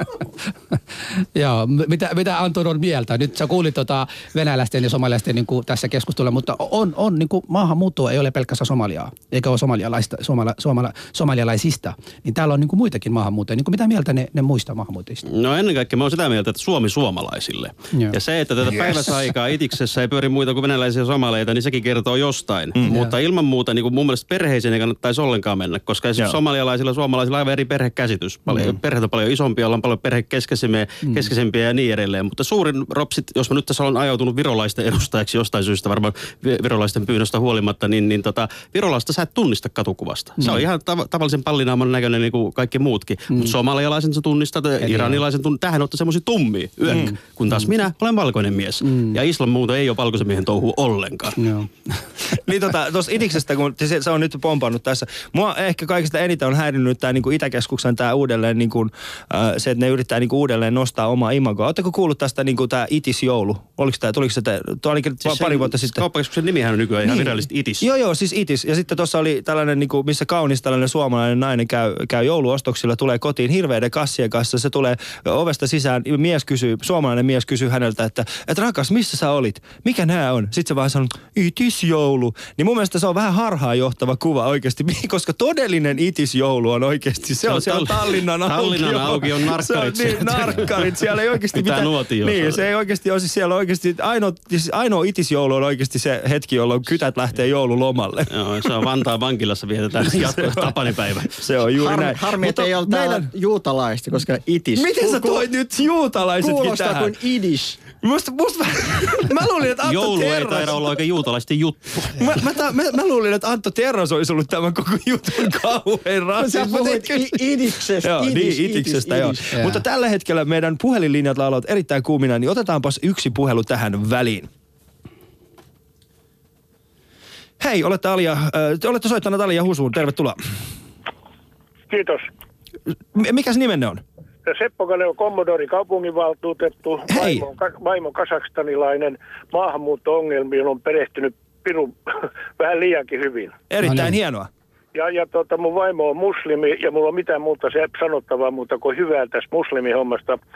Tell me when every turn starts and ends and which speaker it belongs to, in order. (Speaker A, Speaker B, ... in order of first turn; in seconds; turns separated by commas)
Speaker A: 1.4-15.2, Speaker B: 15.3-51.4, Speaker A: 22.9-23.1, Speaker A: 31.0-31.3, Speaker A: 44.8-45.2, Speaker A: 46.9-47.7, Speaker A: 48.9-49.1, Speaker A: 51.4-52.1, Speaker C: 52.3-66.0, Speaker B: 65.2-67.9, Speaker C: 67.1-98.3, Speaker B: 87.4-91.0, Speaker B: 91.5-92.7, Speaker B: 98.3-101.3, Speaker C: 100.1-100.7, Speaker C: 101.4-103.3, Speaker D: 101.8-105.5, Speaker C: 104.8-107.1, Speaker D: 106.4-107.8, Speaker C: 108.0-110.8, Speaker B: 109.8-112.4, Speaker C: 112.2-117.4, Speaker D: 116.4-119.5, Speaker C: 118.0-124.5, Speaker A: 119.5-119.8, Speaker C: 127.6-130.4, Speaker E: 131.9-132.3, Speaker C: 133.1-134.0, Speaker E: 134.5-141.9, Speaker C: 137.1-137.4, Speaker E: 142.6-143.6, Speaker C: 143.7-144.5, Speaker A: 143.8-144.2, Speaker E: 144.9-150.4